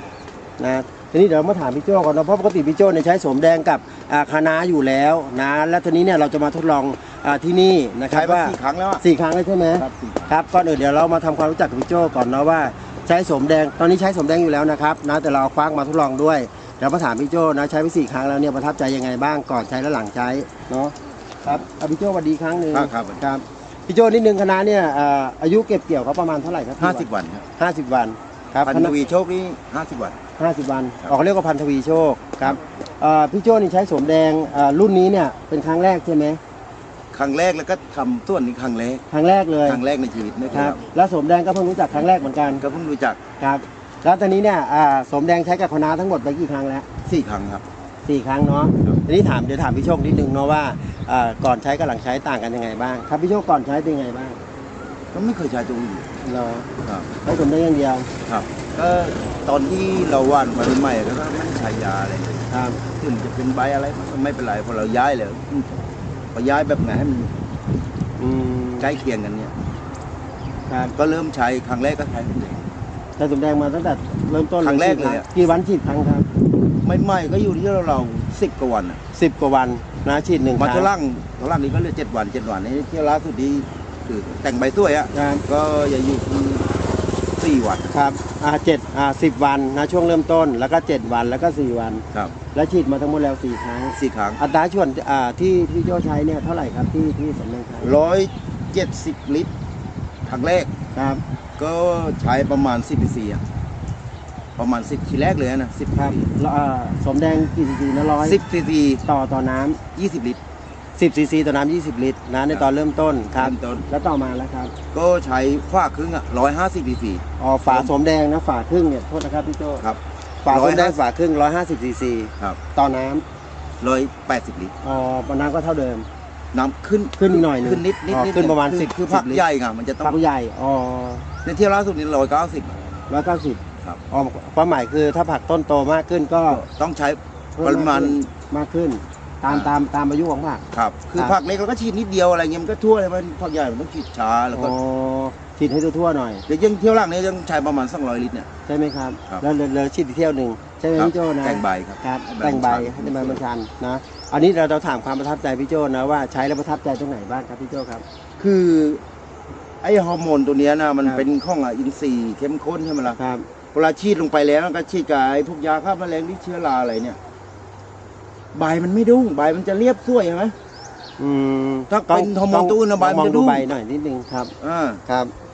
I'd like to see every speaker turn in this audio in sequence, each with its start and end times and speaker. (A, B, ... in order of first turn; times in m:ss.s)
0:00.6-0:27.0 A
0:08.1-0:09.0 B
0:09.8-0:10.3 B
0:22.7-0:23.2 B
0:26.8-0:27.4 B
0:27.6-0:28.9 A
0:28.6-0:30.2 B
0:30.4-0:36.4 A
0:37.1-0:39.0 B
0:39.1-0:39.8 A
0:39.6-0:40.8 B
0:40.5-0:42.6 A
0:42.6-0:43.2 B
0:43.4-0:46.9 A
0:47.0-0:47.6 B
0:48.0-0:54.4 A
0:55.1-0:56.1 B
0:56.2-0:56.7 A
0:56.8-0:57.1 B
0:57.2-0:58.1 A
0:58.2-1:05.7 B
1:02.5-1:02.8 A
1:06.3-1:07.3 B
1:08.2-1:09.0 A
1:08.8-1:09.5 B
1:10.7-1:10.9 A
1:10.9-1:12.8 B
1:13.2-1:16.2 A
1:14.6-1:15.3 B
1:16.8-1:19.0 B
1:19.1-1:20.9 A
1:20.6-1:26.8 B
1:25.1-1:25.4 A
1:27.4-1:28.0 B
1:27.9-1:37.9 A
1:33.9-1:34.4 B
1:37.8-1:39.5 B
1:40.2-1:40.7 B
1:40.9-1:41.2 A
1:41.6-1:43.4 B
1:44.6-1:46.3 B
1:45.9-1:48.4 A
1:48.2-1:49.0 B
1:49.0-1:49.8 A
1:49.9-1:50.4 B
1:51.0-1:54.7 A
1:53.4-1:53.8 B
1:54.9-1:57.9 B
1:57.4-1:59.8 A
1:59.8-2:01.0 B
2:00.4-2:03.2 A
2:03.8-2:04.7 B
2:04.8-2:06.1 A
2:06.5-2:10.1 B
2:07.2-2:09.4 A
2:10.0-2:11.3 A
2:11.4-2:12.7 B
2:13.1-2:16.6 A
2:16.5-2:18.3 B
2:17.6-2:20.6 A
2:19.5-2:19.7 B
2:20.7-2:24.7 B
2:24.5-2:26.4 A
2:26.5-2:28.5 B
2:28.6-2:38.0 A
2:30.9-2:33.4 B
2:38.4-2:39.0 B
2:39.8-2:43.2 B
2:43.1-2:43.5 A
2:43.7-2:47.2 B
2:48.5-2:50.5 B
2:51.2-2:54.5 A
2:51.9-2:53.7 B
2:54.6-2:55.0 B
2:55.0-2:55.3 A